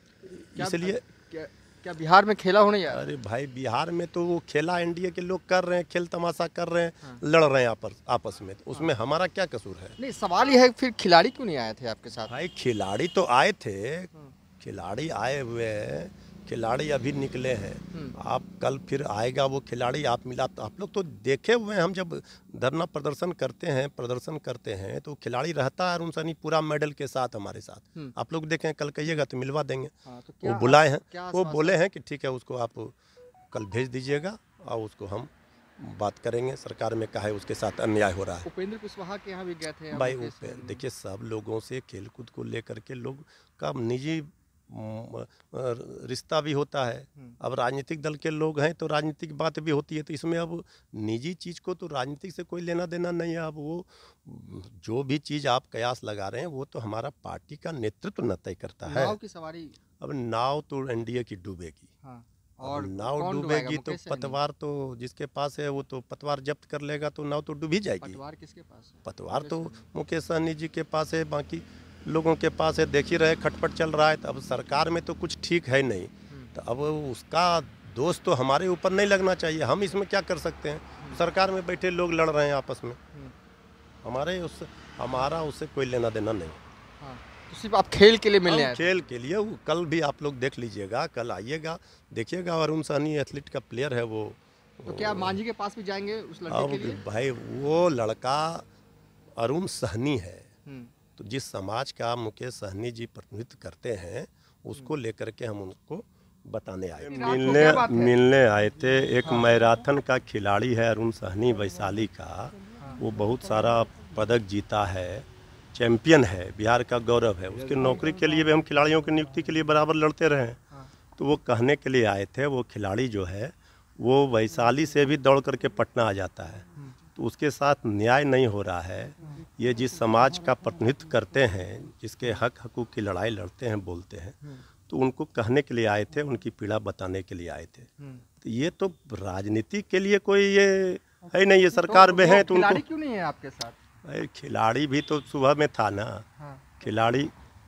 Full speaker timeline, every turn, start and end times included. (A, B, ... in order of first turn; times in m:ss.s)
0:00.2-0:01.0 A
0:00.6-0:03.1 B
0:02.9-0:10.0 A
0:10.0-0:12.3 B
0:12.2-0:33.0 A
0:30.0-0:31.8 B
0:33.5-0:38.5 A
0:38.4-0:40.8 B
0:39.9-0:59.2 A
0:58.8-0:59.8 B
1:00.0-1:01.9 A
1:02.0-1:04.4 B
1:02.6-1:08.2 A
1:08.0-1:09.8 B
1:09.0-1:23.0 A
1:24.0-1:26.6 A
1:27.0-1:28.9 B
1:28.4-1:35.4 A
1:34.8-1:37.0 B
1:36.5-1:38.7 A
1:39.4-1:40.5 A
1:40.7-1:40.9 B
1:41.2-2:00.6 A
1:47.0-1:48.2 B
1:49.2-1:49.6 B
1:52.8-1:53.0 B
2:01.2-2:14.4 A
2:14.9-2:17.9 A
2:18.4-2:22.8 A
2:21.8-2:23.8 B
2:24.0-2:26.2 A
2:26.4-2:26.7 B
2:26.8-2:27.3 A